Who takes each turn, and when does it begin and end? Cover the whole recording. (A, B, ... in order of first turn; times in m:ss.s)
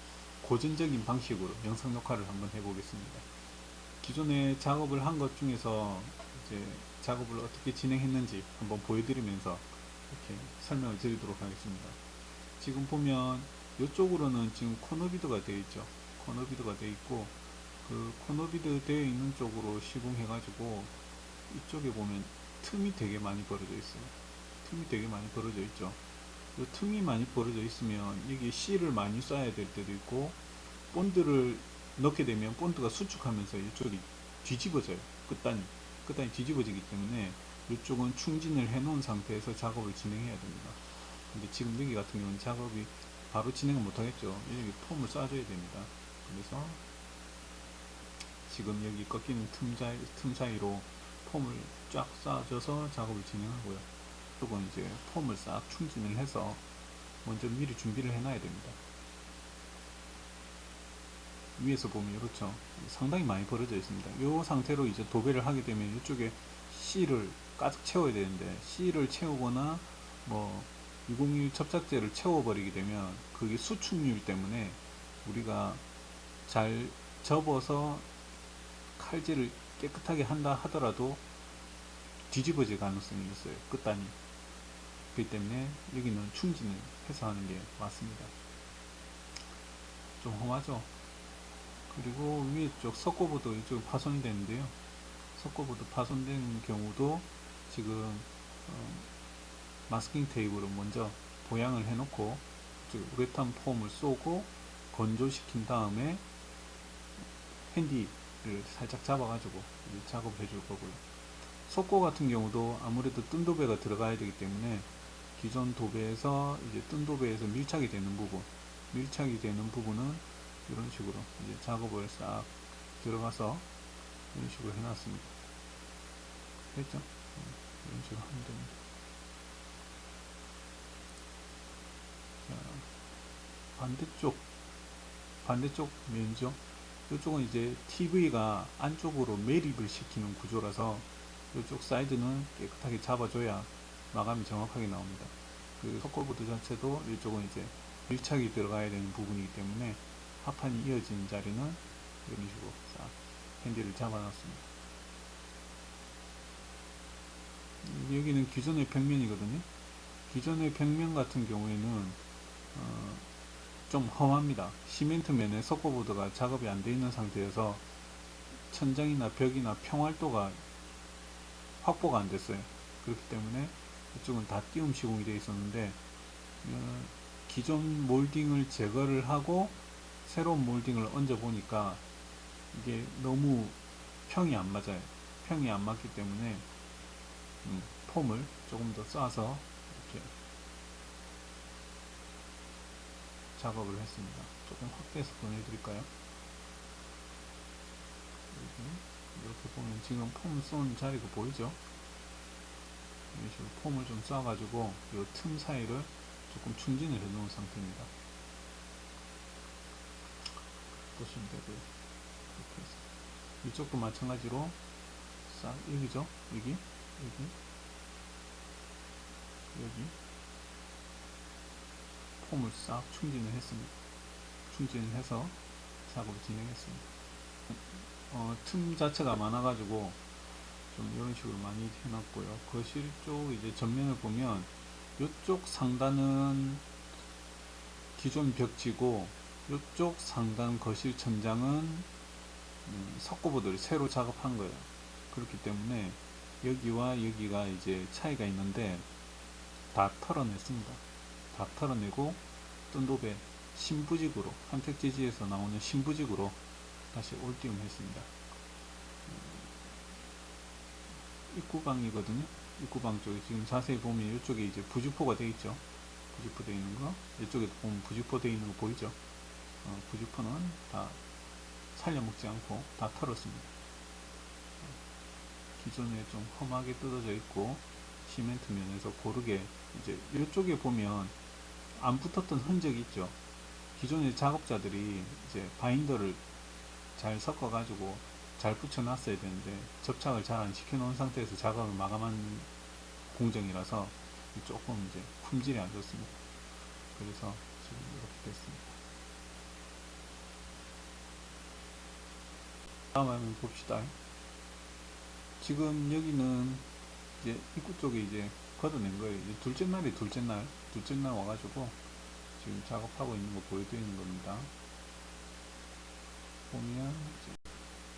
0:00.4-0:03.2 A
0:04.0-0:12.0 A
0:12.6-0:20.9 A
0:21.5-0:26.0 A
0:26.6-0:30.4 A
0:30.9-0:46.8 A
0:48.4-0:53.9 A
0:54.4-0:56.6 A
0:57.2-0:58.8 A
1:01.6-1:15.8 A
1:16.4-1:18.0 A
1:19.0-1:21.2 A
1:22.3-1:24.1 A
1:25.1-1:28.3 A
1:30.2-1:30.9 A
1:31.9-1:34.7 A
1:35.3-1:39.1 A
1:39.9-1:46.2 A
1:47.7-1:51.0 A
1:51.6-2:03.7 A
2:04.3-2:05.3 A
2:06.7-2:08.8 A
2:12.4-2:12.9 A
2:13.8-2:14.4 A
2:15.4-2:34.6 A
2:37.8-2:39.7 A
2:40.3-2:42.2 A
2:42.7-2:43.2 A
2:43.9-2:47.8 A
2:48.7-2:50.6 A
2:51.8-2:56.0 A
2:56.6-3:02.0 A
3:02.7-3:06.6 A
3:07.6-3:10.3 A
3:13.6-3:16.1 A
3:18.5-3:21.8 A
3:23.3-3:28.1 A
3:31.1-3:31.9 A
3:32.5-3:33.0 A
3:33.6-3:34.8 A
3:35.4-3:37.5 A
3:39.7-3:40.1 A
3:42.4-3:43.9 A
3:44.7-3:47.1 A
3:47.7-3:50.2 A
3:50.9-3:56.8 A
3:58.2-4:02.1 A
4:02.8-4:09.1 A
4:09.9-4:16.6 A
4:17.1-4:18.3 A
4:19.2-4:19.9 A
4:21.5-4:29.2 A
4:29.8-4:31.2 A
4:31.9-4:33.7 A
4:35.8-4:41.3 A
4:42.0-4:43.4 A
4:44.0-4:46.4 A
4:47.2-4:52.7 A
4:53.3-4:56.4 A
4:57.1-4:59.0 A
5:03.1-5:04.1 A
5:05.6-5:06.9 A
5:07.4-5:12.0 A
5:12.6-5:14.7 A
5:16.7-5:17.6 A